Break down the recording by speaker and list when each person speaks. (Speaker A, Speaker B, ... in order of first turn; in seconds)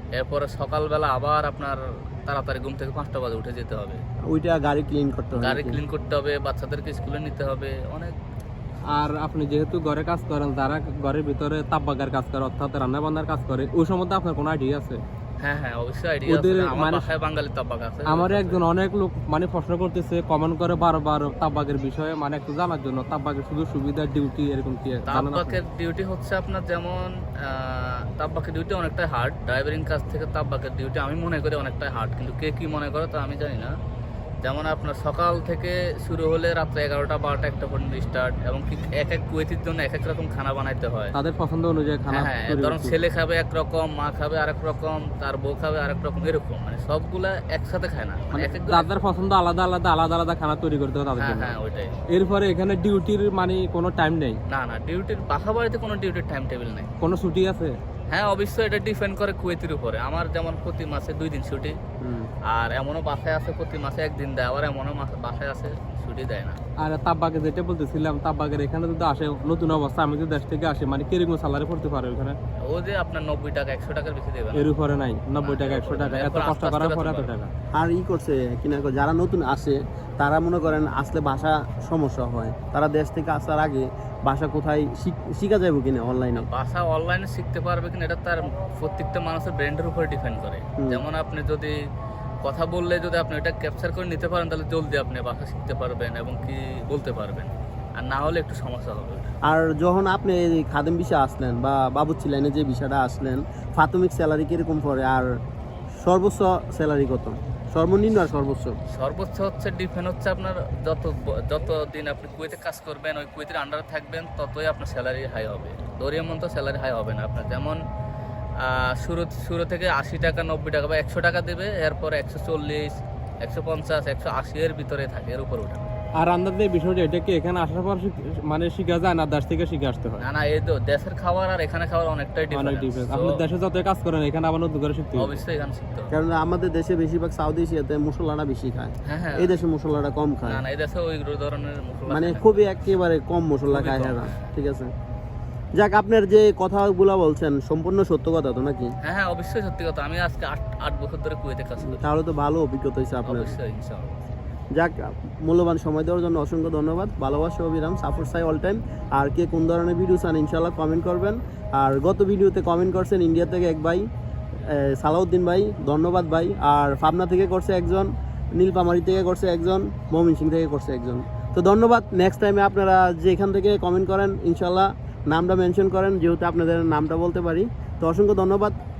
Speaker A: 0.2-4.0, 5.3-8.1, 15.4-18.6, 25.1-33.7, 34.4-41.1, 42.1-49.0, 51.2-52.0, 54.5-56.9, 58.1-61.8, 62.5-66.6, 72.7-74.7, 75.4-77.3, 86.4-91.7, 92.4-99.3, 108.9-117.8, 118.6-125.9, 130.2-133.4, 135.1-136.1, 139.0-139.6, 140.4-142.7, 143.7-144.5, 149.0-152.0, 153.2-154.2
Speaker B: 4.3-5.8, 62.0-62.3, 77.7-86.5, 99.4-105.3, 106.0-108.8, 136.1-140.6, 142.1-144.9, 145.8-148.9, 151.8-153.5, 154.7-164.0, 164.6-178.8
Speaker C: 8.9-15.0, 16.3-17.1, 18.1-25.6, 41.1-43.0, 48.3-51.5, 52.1-54.4, 57.0-57.7, 66.8-72.3, 74.5-77.5, 126.2-130.3, 132.5-135.4